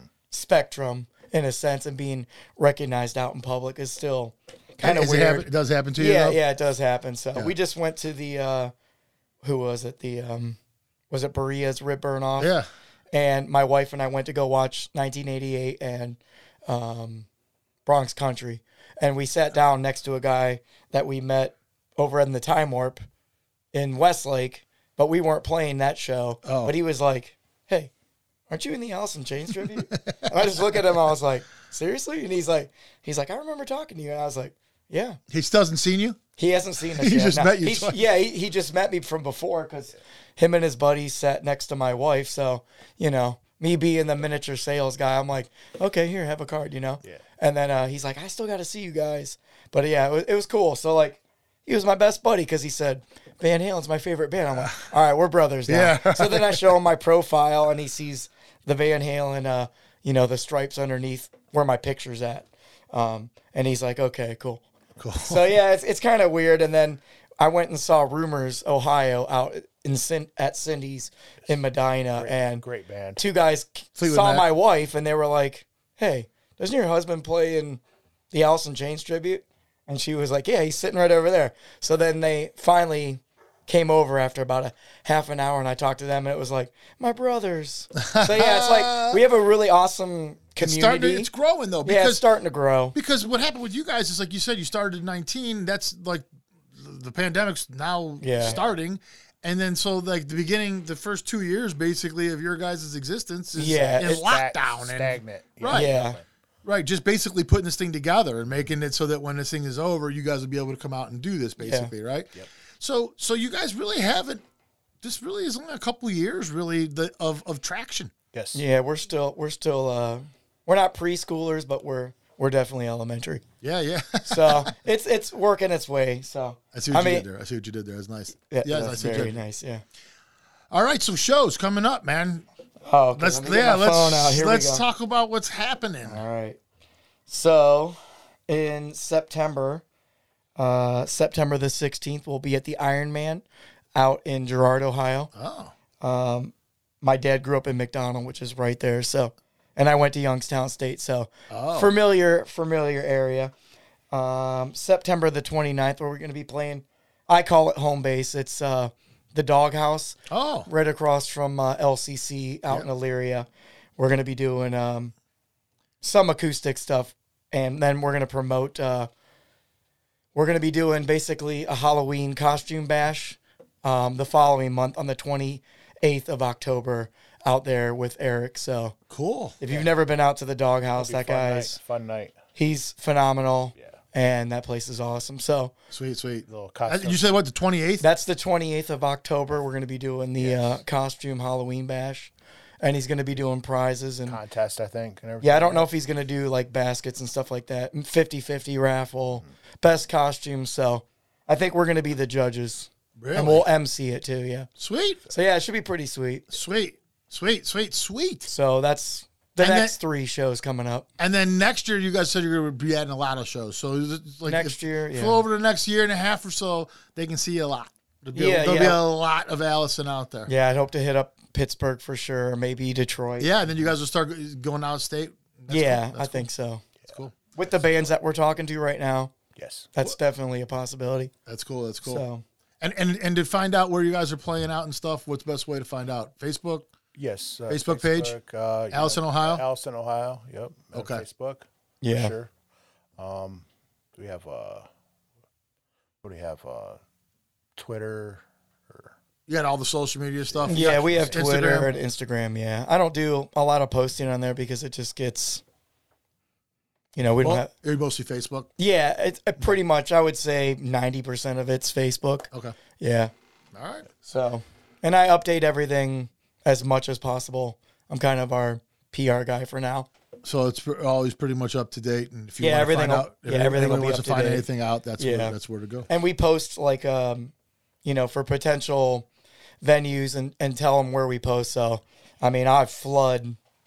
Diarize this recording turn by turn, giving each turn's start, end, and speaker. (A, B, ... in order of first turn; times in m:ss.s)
0:00.3-0:08.7 A
0:04.8-0:06.4 B
0:09.4-0:10.6 A
0:11.1-0:12.5 A
0:12.4-0:12.7 B
0:13.1-0:17.3 A
0:17.8-0:23.0 A
0:23.7-0:27.9 A
0:26.4-0:26.7 B
0:28.5-0:35.2 A
0:29.8-0:30.6 B
0:35.3-0:36.2 B
0:36.4-1:04.6 A
0:36.8-0:38.0 B
0:55.7-0:56.8 B
1:05.0-1:05.6 B
1:05.2-1:12.6 A
1:12.1-1:13.2 C
1:13.2-1:17.8 A
1:14.0-1:14.5 B
1:18.3-1:31.3 A
1:28.0-1:29.2 B
1:30.6-1:32.3 B
1:31.8-1:33.0 A
1:32.9-1:45.9 B
1:38.2-1:38.6 A
1:38.4-1:38.7 C
1:43.5-1:44.2 A
1:43.9-1:46.2 C
1:45.7-1:46.2 A
1:46.6-1:54.4 B
1:51.6-1:51.9 A
1:55.0-1:58.1 B
1:58.3-1:58.6 C
1:58.5-2:03.4 A
2:03.6-2:04.7 B
2:04.3-2:07.2 A
2:06.7-2:09.4 B
2:08.4-2:09.8 A
2:10.7-2:12.4 B
2:12.8-2:14.8 A
2:13.1-2:16.2 B
2:16.0-2:16.6 A
2:17.3-2:19.8 A
2:20.6-2:23.4 A
2:23.9-2:25.3 A
2:25.3-2:25.7 B
2:26.0-2:33.5 A
2:31.5-2:31.9 B
2:34.1-2:45.1 A
2:40.3-2:40.7 B
2:46.0-2:49.1 A
2:50.3-2:59.0 A
2:59.1-2:59.6 B
2:59.6-3:01.8 A
3:01.0-3:02.4 C
3:02.5-3:05.7 A
3:05.9-3:08.0 B
3:06.5-3:07.4 C
3:08.0-3:14.4 A
3:10.4-3:10.8 C
3:14.3-3:15.9 C
3:15.4-3:24.7 A
3:23.2-3:23.7 B
3:24.8-3:25.2 B
3:25.3-3:26.5 A
3:26.5-3:28.5 B
3:28.5-3:31.1 A
3:29.6-3:30.0 B
3:31.2-3:40.5 B
3:34.4-3:35.4 A
3:38.3-3:39.0 A
3:40.5-3:43.5 A
3:43.4-3:46.5 B
3:45.7-3:46.8 A
3:47.1-3:47.4 B
3:47.5-3:49.3 A
3:49.6-3:49.9 C
3:49.9-3:51.3 A
3:51.4-3:52.2 B
3:52.0-3:52.4 A
3:52.8-3:56.9 B
3:57.1-4:02.5 C
3:57.7-3:58.4 B
3:58.9-3:59.6 B
4:00.9-4:01.2 B
4:02.0-4:02.3 A
4:03.2-4:03.6 C
4:04.2-4:04.9 C
4:06.2-4:07.0 C
4:07.8-4:09.1 C
4:09.5-4:11.9 B
4:10.5-4:11.4 C
4:10.7-4:15.6 A
4:17.2-4:17.7 A
4:17.4-4:18.7 B
4:18.8-4:22.5 A
4:23.0-4:23.3 A
4:23.7-4:24.1 B
4:24.2-4:30.1 A
4:30.4-4:36.1 B
4:32.6-4:34.7 A
4:35.2-4:35.6 A
4:36.1-4:37.5 A
4:38.0-4:39.3 A
4:39.8-4:43.6 A